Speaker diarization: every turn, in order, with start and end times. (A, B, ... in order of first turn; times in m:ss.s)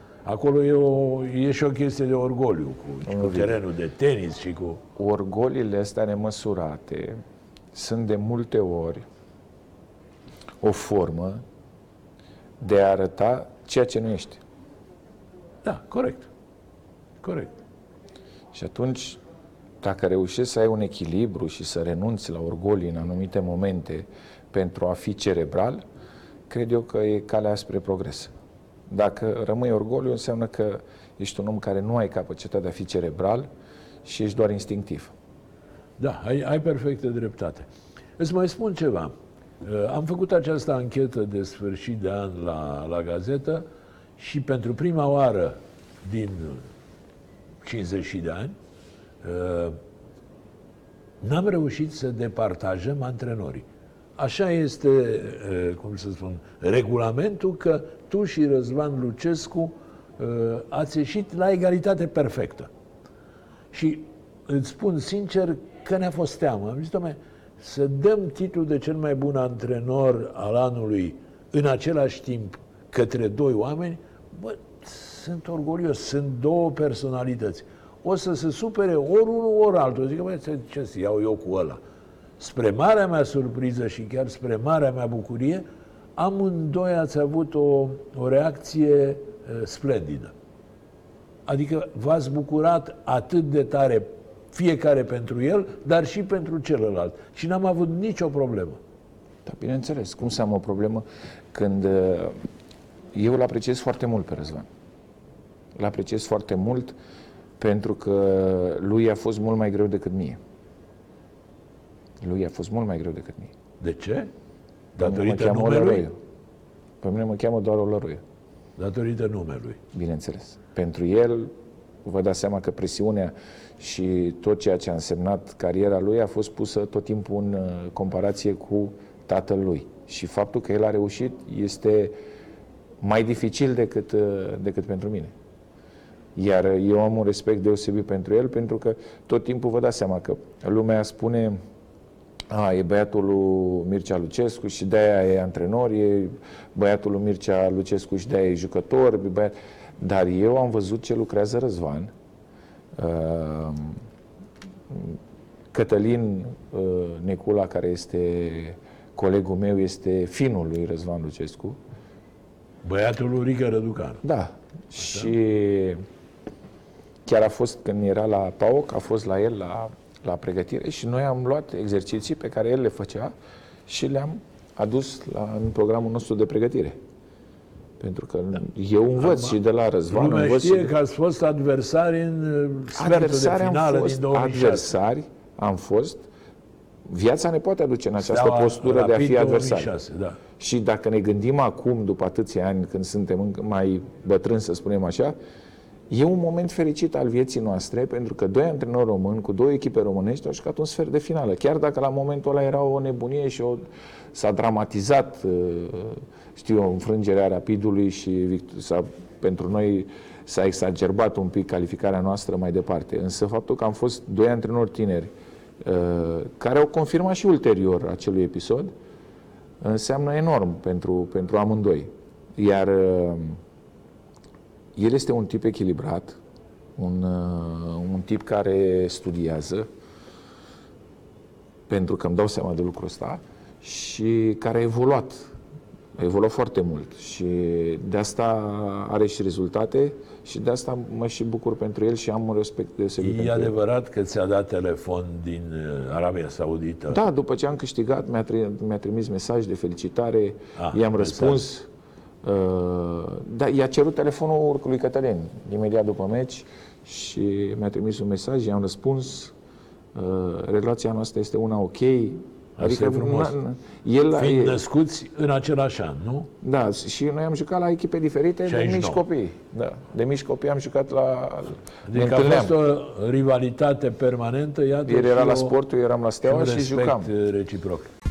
0:00.2-0:04.8 A
0:03.0-0:03.6 B
0:05.0-0:07.2 B
0:07.7-0:09.0 B
0:10.6-0:11.4 B
0:12.6-0:14.4 B
0:15.6-0:16.3 A
0:17.2-0:17.5 A
0:18.5-0:19.2 B
0:19.8-0:25.8 B
0:26.5-0:28.3 B
0:28.9-0:33.5 B
0:34.0-0:35.1 B
0:36.0-0:43.6 A
0:44.2-0:46.6 A
0:47.6-0:48.5 A
0:49.2-0:49.8 A
0:51.2-0:53.6 A
0:54.2-1:02.7 A
1:03.7-1:21.8 A
1:22.4-1:25.6 A
1:26.2-1:30.3 A
1:31.5-1:38.8 A
1:39.4-1:42.4 B
1:43.1-1:44.7 B
1:45.8-1:47.0 B
1:47.6-1:50.4 B
1:52.2-1:53.5 B
1:53.8-1:54.3 A
1:54.9-1:56.1 A
1:55.0-1:56.2 B
1:57.0-1:58.2 B
1:58.8-1:59.8 A
1:59.9-2:01.5 B
2:02.0-2:12.2 B
2:13.0-2:15.3 B
2:16.3-2:21.6 B
2:22.5-2:32.1 B
2:32.9-2:34.0 B
2:34.9-2:35.2 B
2:35.7-2:41.8 B
2:42.8-2:44.2 A
2:44.2-2:46.0 B
2:45.0-2:45.3 A
2:47.2-2:53.3 B
2:53.9-2:57.0 B
2:58.0-3:00.9 B
2:59.2-2:59.6 A
3:00.1-3:04.9 A
3:02.9-3:06.3 B
3:07.0-3:09.9 B
3:08.2-3:10.4 A
3:10.6-3:15.4 B
3:16.1-3:38.9 B
3:39.8-3:43.6 B
3:45.0-3:46.4 B
3:47.0-3:49.9 B
3:51.9-3:55.5 B
3:56.2-4:03.7 B
4:03.2-4:07.2 A
4:07.1-4:11.9 B
4:10.8-4:11.6 A
4:12.4-4:19.5 B
4:20.1-4:24.8 B
4:22.8-4:23.6 A
4:24.3-4:26.5 A
4:26.6-4:32.8 B
4:28.7-4:29.2 A
4:32.0-4:35.7 A
4:35.0-4:37.3 B
4:36.4-4:38.1 A